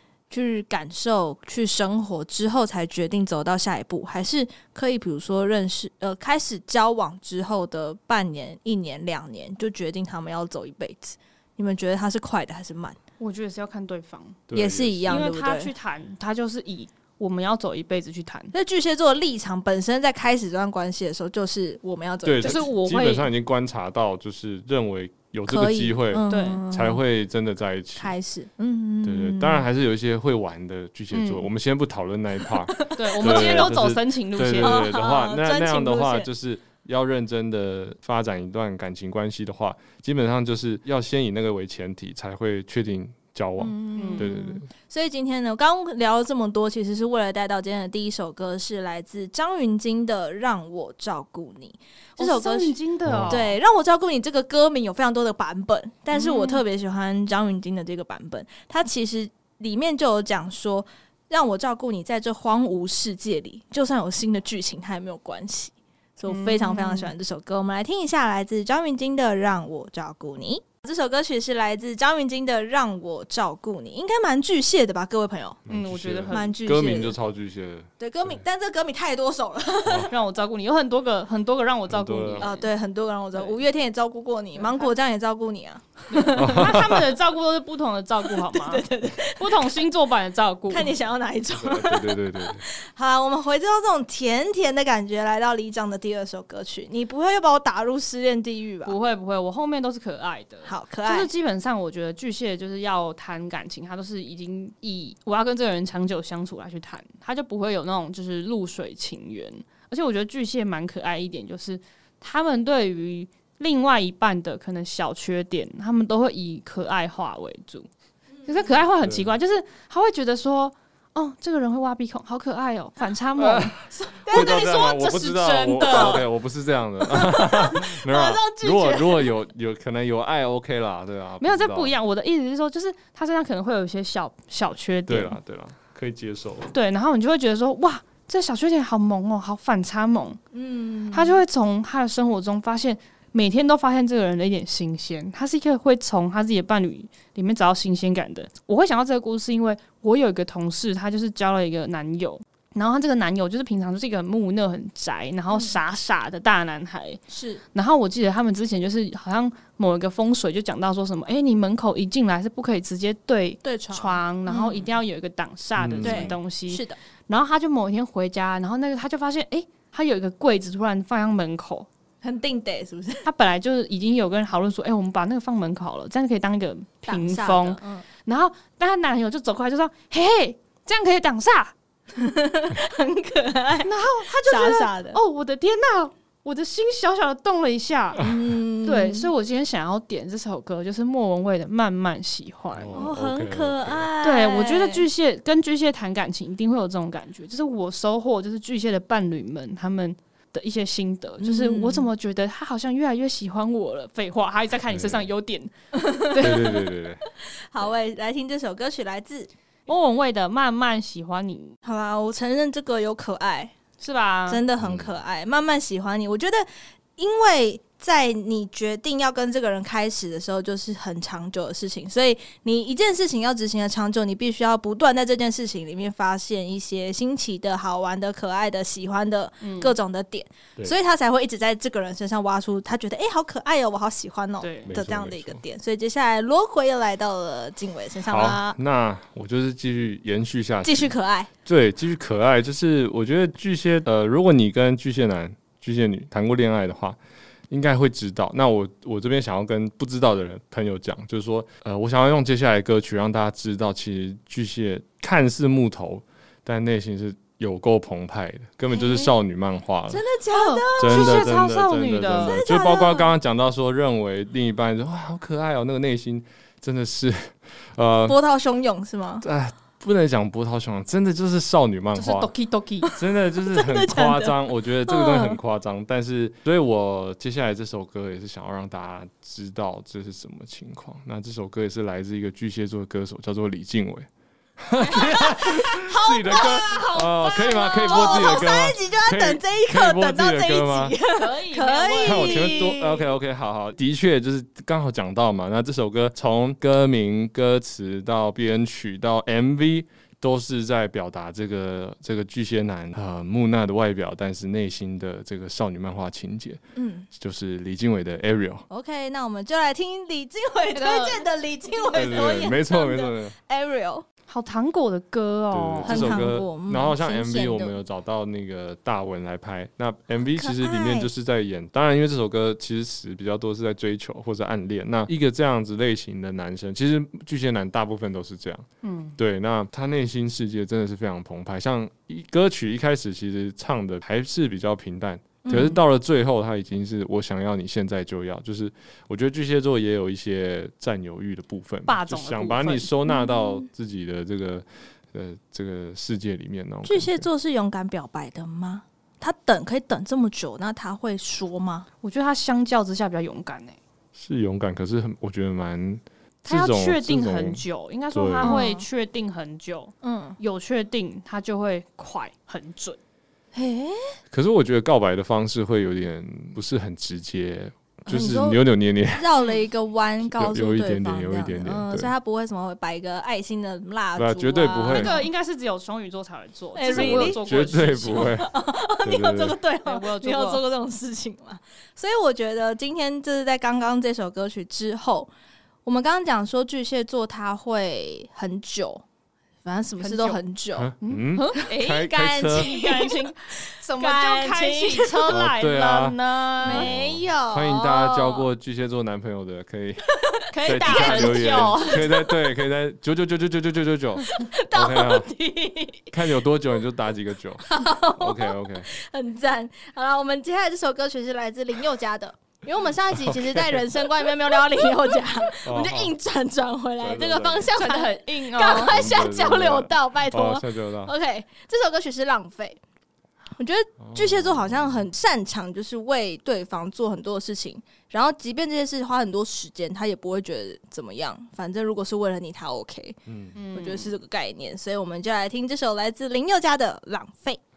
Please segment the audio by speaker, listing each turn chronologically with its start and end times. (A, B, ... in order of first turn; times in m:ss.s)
0:00.3-0:13.0 A
0:13.2-0:14.4 B
0:14.5-0:15.2 C
0:14.5-0:15.7 A
0:15.0-0:18.5 B
0:18.5-0:22.7 A
0:22.2-0:28.1 C
0:22.4-0:23.3 B
0:25.5-0:27.0 A
0:26.3-0:26.6 B
0:28.0-0:29.7 A
0:29.0-0:44.6 C
0:31.1-0:31.5 B
0:32.5-0:33.7 A
0:32.9-0:34.9 B
0:34.6-0:36.3 A
0:43.6-1:15.6 A
0:43.9-0:44.3 B
0:52.2-0:53.5 B
0:53.0-0:53.5 C
0:56.1-0:56.6 B
1:06.3-1:07.1 B
1:15.7-1:16.5 B
1:15.7-1:18.4 C
1:16.3-1:17.2 A
1:18.0-1:20.1 A
1:20.1-1:22.7 B
1:21.9-1:22.5 C
1:22.4-1:26.7 A
1:24.6-1:24.9 B
1:26.1-1:30.9 B
1:26.4-1:27.0 C
1:28.3-1:29.8 A
1:30.7-1:39.0 A
1:31.5-1:32.6 C
1:38.8-1:57.9 B
1:40.6-1:41.3 A
1:58.4-1:58.8 A
1:58.4-2:03.8 B
1:59.0-1:59.3 C
2:03.4-2:11.9 C
2:03.9-2:04.7 A
2:04.3-2:06.2 B
2:05.8-2:06.2 A
2:07.0-2:09.3 A
2:11.4-2:15.4 B
2:15.1-2:16.7 C
2:16.7-2:20.4 B
2:20.5-2:21.4 A
2:21.1-2:37.2 B
2:37.3-2:37.6 A
2:37.7-2:51.9 B
2:43.6-2:44.9 A
2:45.8-2:46.4 C
2:46.0-2:47.0 A
2:52.2-2:53.3 A
2:53.2-3:01.7 B
2:57.0-2:58.0 A
3:02.1-3:05.2 A
3:03.8-3:08.2 B
3:08.2-3:08.4 C
3:08.2-3:09.3 A
3:08.8-3:13.0 B
3:12.7-3:14.1 C
3:12.9-3:15.0 A
3:14.2-3:26.8 B
3:21.4-3:22.1 A
3:24.9-3:25.3 C
3:26.0-3:26.9 A
3:26.4-3:27.2 C
3:27.7-3:29.5 A
3:29.9-3:31.7 B
3:31.8-3:33.7 A
3:34.0-3:34.6 B
3:34.5-3:58.8 A
3:34.8-3:35.1 C
3:49.6-3:49.9 B
3:54.6-3:54.9 B
3:54.9-3:55.6 C
3:58.3-4:01.1 C
4:00.8-4:01.5 A
4:01.6-4:07.2 C
4:07.7-4:20.2 C
4:18.9-4:19.3 A
4:20.1-4:21.6 A
4:20.5-4:22.6 B
4:21.0-4:28.4 C
4:22.3-4:23.3 A
4:28.3-4:29.4 A
4:29.4-4:32.5 C
4:32.1-4:33.1 B
4:33.0-4:35.6 A
4:33.2-4:51.1 C
4:45.1-4:53.3 A
4:48.0-4:48.6 B
4:51.3-4:52.9 B
4:52.2-5:06.8 C
5:07.0-5:07.3 A
5:07.3-5:08.8 C
5:08.9-5:14.2 A
5:10.9-5:12.7 B
5:12.1-5:13.5 C
5:14.5-5:16.5 B
5:15.7-5:47.5 C
5:16.0-5:18.0 A
5:20.5-5:21.3 A
5:29.0-5:29.4 B
5:35.6-5:36.0 A
5:42.1-5:43.1 B
5:43.3-5:43.8 A
5:47.0-5:52.1 A
5:52.2-5:54.0 B
5:54.3-5:58.8 C
5:56.6-6:03.2 B
5:58.6-5:59.0 A
6:00.2-6:00.6 A
6:03.7-6:04.4 A
6:04.5-6:09.5 C
6:08.3-6:15.5 A
6:10.4-6:12.3 C
6:14.4-6:15.4 C
6:15.1-6:18.6 B
6:16.9-6:17.6 A
6:17.1-6:19.8 C
6:18.3-6:25.5 A
6:20.0-6:20.8 B
6:26.0-6:29.2 A
6:29.8-6:31.1 A
6:30.2-6:30.6 B
6:31.0-6:32.9 C
6:31.2-6:37.1 B
6:31.8-6:35.5 A
6:35.5-6:40.2 C
6:36.8-6:38.7 A
6:40.3-6:42.6 A
6:40.7-6:42.2 B
6:40.8-6:45.5 C
6:44.5-6:46.4 A
6:46.3-6:49.1 C
6:47.8-7:03.0 A
6:53.3-6:54.1 C
6:55.8-6:56.4 C
6:57.2-6:57.9 C
6:57.9-6:59.2 B
6:58.9-7:01.3 C
7:03.8-7:13.4 A
7:04.2-7:05.2 C
7:13.5-7:13.8 C
7:13.7-7:14.4 B
7:13.9-7:17.8 A